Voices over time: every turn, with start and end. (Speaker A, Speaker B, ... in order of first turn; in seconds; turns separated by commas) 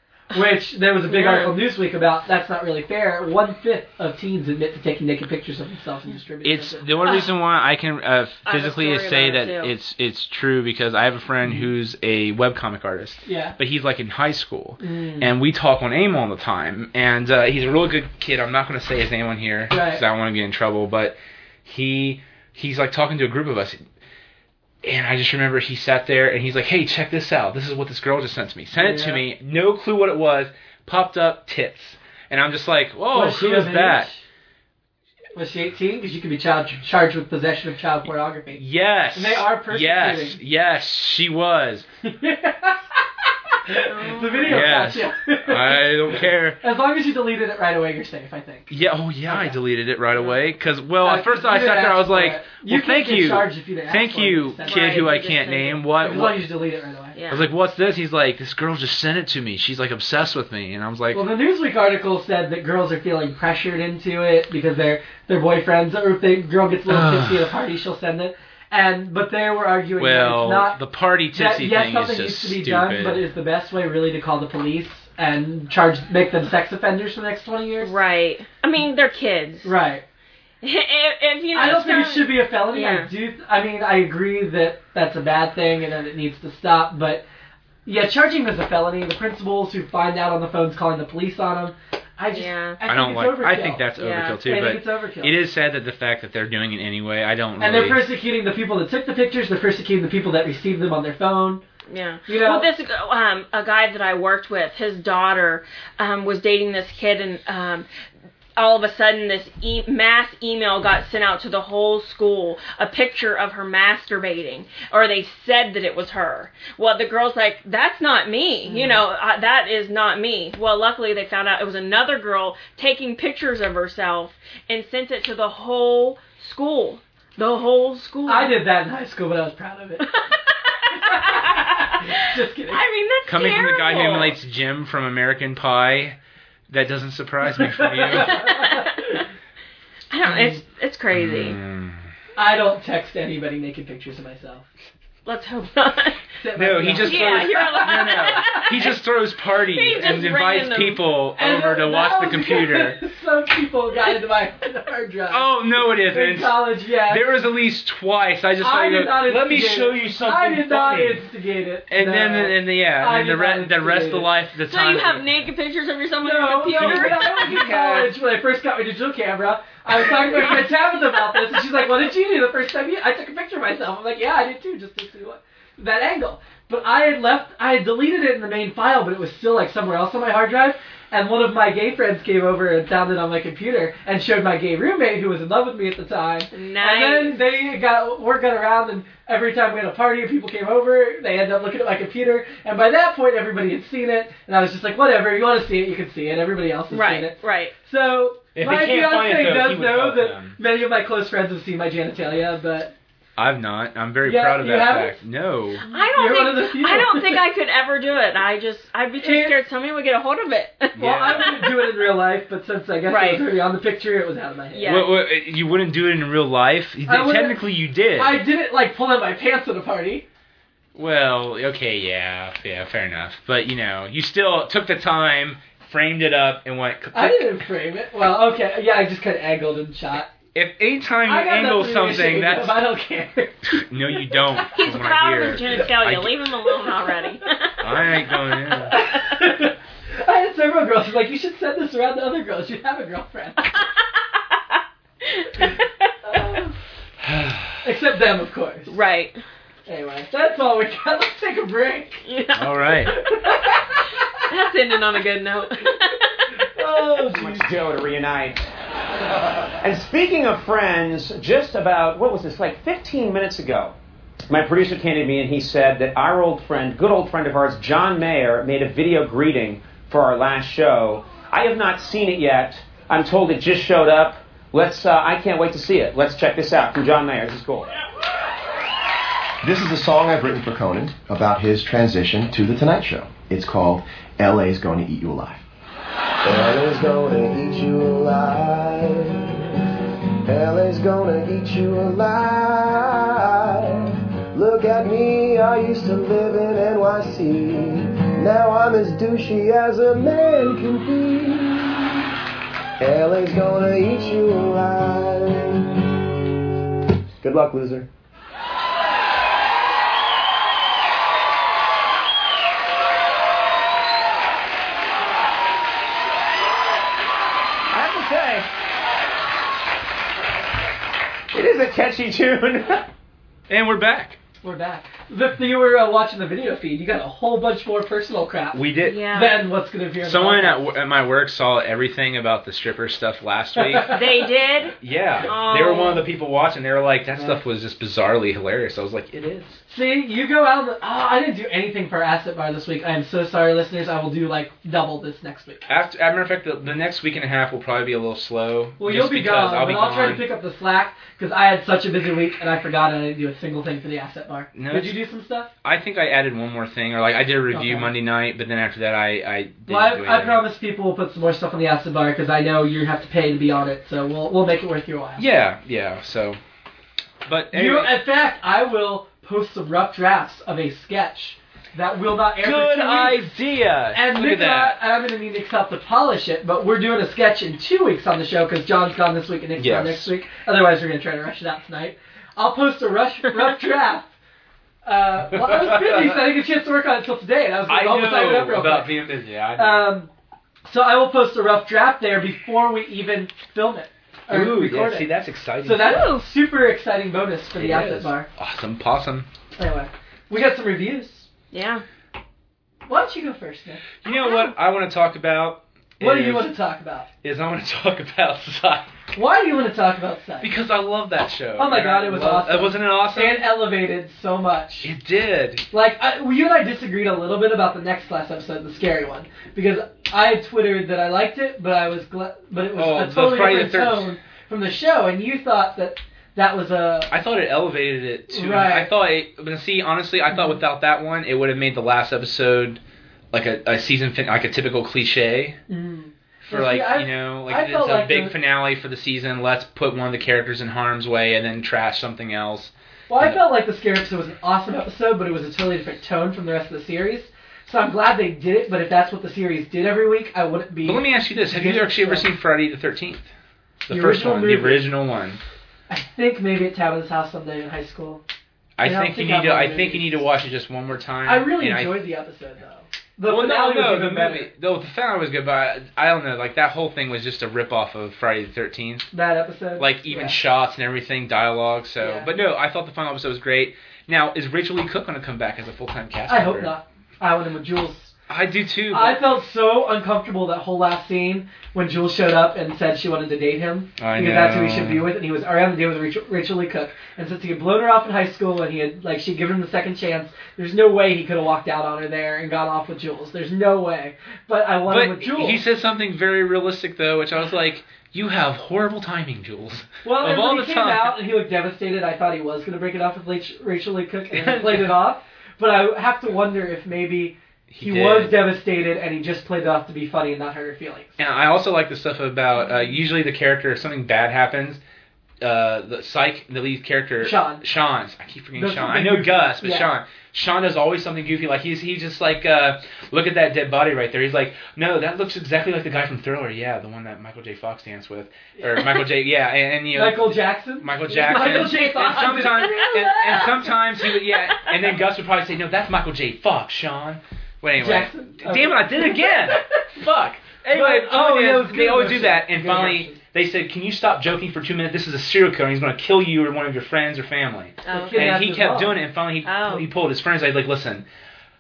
Speaker A: 0.3-7.2, Speaker B: 1.1-1.6, Speaker C: 6.4-23.8, Speaker B: 8.5-9.7, Speaker A: 13.3-13.6, Speaker A: 14.8-15.3, Speaker A: 19.7-20.0, Speaker C: 24.8-34.1, Speaker A: 28.8-29.2, Speaker A: 33.1-34.2, Speaker A: 35.4-38.6, Speaker C: 38.5-41.9, Speaker A: 39.1-40.4, Speaker A: 42.0-43.0, Speaker A: 43.7-48.7, Speaker B: 43.8-44.8, Speaker C: 44.4-46.6, Speaker C: 48.7-56.5, Speaker A: 49.3-49.6, Speaker A: 51.0-55.1, Speaker B: 54.6-55.8, Speaker A: 56.0-57.1, Speaker B: 57.2-57.4, Speaker C: 57.3-61.3, Speaker A: 61.1-70.8, Speaker C: 66.9-67.5, Speaker C: 70.0-73.3, Speaker A: 71.3-77.9, Speaker B: 77.8-79.7, Speaker A: 79.6-80.0, Speaker B: 80.6-83.1, Speaker A: 81.5-87.2, Speaker A: 87.9-93.9, Speaker B: 92.3-92.8, Speaker C: 92.8-98.1, Speaker B: 94.0-94.4, Speaker A: 94.4-95.4, Speaker A: 97.6-101.6, Speaker B: 101.9-107.9, Speaker A: 102.3-102.7, Speaker B: 108.6-128.6, Speaker A: 118.7-119.0, Speaker A: 128.3-130.1, Speaker B: 130.0-134.4, Speaker A: 130.9-132.8, Speaker C: 133.3-136.2, Speaker C: 136.7-138.5, Speaker A: 137.5-139.2, Speaker B: 138.3-139.2, Speaker B: 140.1-141.6, Speaker A: 140.3-140.6, Speaker C: 141.1-142.0, Speaker A: 142.4-144.7, Speaker B: 145.3-146.2, Speaker A: 146.4-148.6, Speaker C: 146.6-153.0, Speaker B: 147.0-148.9, Speaker B: 149.6-151.0, Speaker A: 151.4-157.4, Speaker C: 155.3-161.2, Speaker A: 158.6-164.3, Speaker C: 161.9-165.3, Speaker B: 164.7-167.5, Speaker A: 166.2-202.9, Speaker C: 166.7-168.2, Speaker B: 170.1-170.5, Speaker B: 186.5-187.4, Speaker B: 196.9-197.7, Speaker C: 198.6-200.6, Speaker C: 203.4-205.8, Speaker A: 204.2-205.2, Speaker A: 205.9-207.4, Speaker B: 205.9-211.9, Speaker A: 209.2-209.6, Speaker C: 210.9-211.5, Speaker A: 211.0-215.0, Speaker B: 213.1-213.4, Speaker B: 214.7-215.1, Speaker C: 214.8-218.4, Speaker A: 217.1-217.6, Speaker A: 218.2-220.2, Speaker C: 220.9-227.5, Speaker A: 227.1-230.3, Speaker C: 230.5-232.8, Speaker A: 231.2-233.8, Speaker C: 233.7-236.4, Speaker B: 234.7-238.1, Speaker C: 237.8-239.0, Speaker A: 238.9-243.8, Speaker B: 238.9-239.4, Speaker B: 244.7-246.7, Speaker A: 246.3-246.7, Speaker C: 247.2-247.8, Speaker A: 247.8-248.9, Speaker B: 248.9-249.4, Speaker A: 249.9-252.2, Speaker B: 252.3-252.8, Speaker C: 252.6-253.2, Speaker A: 253.1-254.5, Speaker B: 254.4-256.6, Speaker A: 256.5-257.7, Speaker D: 257.3-258.7, Speaker D: 259.8-263.9, Speaker D: 264.5-277.9, Speaker E: 279.6-285.7, Speaker E: 286.4-289.6, Speaker E: 290.4-302.1, Speaker E: 303.0-305.9, Speaker E: 307.4-308.1, Speaker D: 317.9-318.6, Speaker D: 321.5-323.1, Speaker C: 323.7-324.4, Speaker A: 324.6-330.9, Speaker C: 328.7-329.2, Speaker B: 329.0-329.7, Speaker C: 330.2-334.2, Speaker A: 333.8-334.4, Speaker B: 334.0-336.2, Speaker C: 335.0-339.8, Speaker A: 337.4-337.6, Speaker A: 339.9-345.9, Speaker C: 345.9-350.5, Speaker A: 349.0-355.7, Speaker C: 354.8-355.2, Speaker C: 355.8-360.7, Speaker A: 357.7-358.1, Speaker A: 359.9-365.5, Speaker C: 365.4-366.6, Speaker C: 367.4-368.2, Speaker A: 367.7-373.5, Speaker C: 372.6-375.0, Speaker A: 374.1-384.3, Speaker C: 379.8-380.3, Speaker A: 385.1-389.1, Speaker C: 385.5-386.5, Speaker C: 387.9-390.2, Speaker A: 389.8-390.3, Speaker A: 390.9-395.3, Speaker C: 394.5-396.2, Speaker A: 395.8-398.5, Speaker B: 396.0-396.5, Speaker C: 397.8-399.5, Speaker A: 399.8-401.5, Speaker B: 401.7-402.0, Speaker A: 403.1-404.1, Speaker C: 404.2-406.8, Speaker A: 406.2-407.3, Speaker C: 407.4-409.1, Speaker A: 409.3-410.7, Speaker C: 410.6-413.8, Speaker A: 411.8-415.1, Speaker C: 415.0-415.9, Speaker A: 415.9-427.3, Speaker C: 422.9-424.3, Speaker C: 427.3-433.0, Speaker A: 428.5-429.1, Speaker A: 430.5-430.8, Speaker C: 433.5-435.8, Speaker A: 435.9-438.6, Speaker C: 436.6-443.6, Speaker A: 443.3-452.5, Speaker C: 451.0-453.5, Speaker C: 454.1-455.6, Speaker A: 454.1-455.1, Speaker A: 456.1-458.4, Speaker C: 459.0-462.2, Speaker A: 459.0-460.4, Speaker A: 461.4-464.7, Speaker C: 463.4-469.3, Speaker A: 469.3-470.6, Speaker C: 470.0-476.9, Speaker A: 472.2-472.5, Speaker A: 476.5-478.4, Speaker C: 478.5-479.5, Speaker A: 479.1-495.8, Speaker C: 484.2-485.3, Speaker C: 495.1-501.4, Speaker A: 500.2-511.4, Speaker C: 504.5-505.2, Speaker C: 507.9-508.6, Speaker C: 511.4-515.0, Speaker C: 515.6-551.2, Speaker A: 517.4-517.8, Speaker A: 518.8-520.1, Speaker A: 530.1-533.8, Speaker B: 531.4-532.1, Speaker A: 538.0-540.1, Speaker A: 540.9-543.4, Speaker B: 548.1-548.5, Speaker A: 548.1-549.2, Speaker B: 549.6-550.1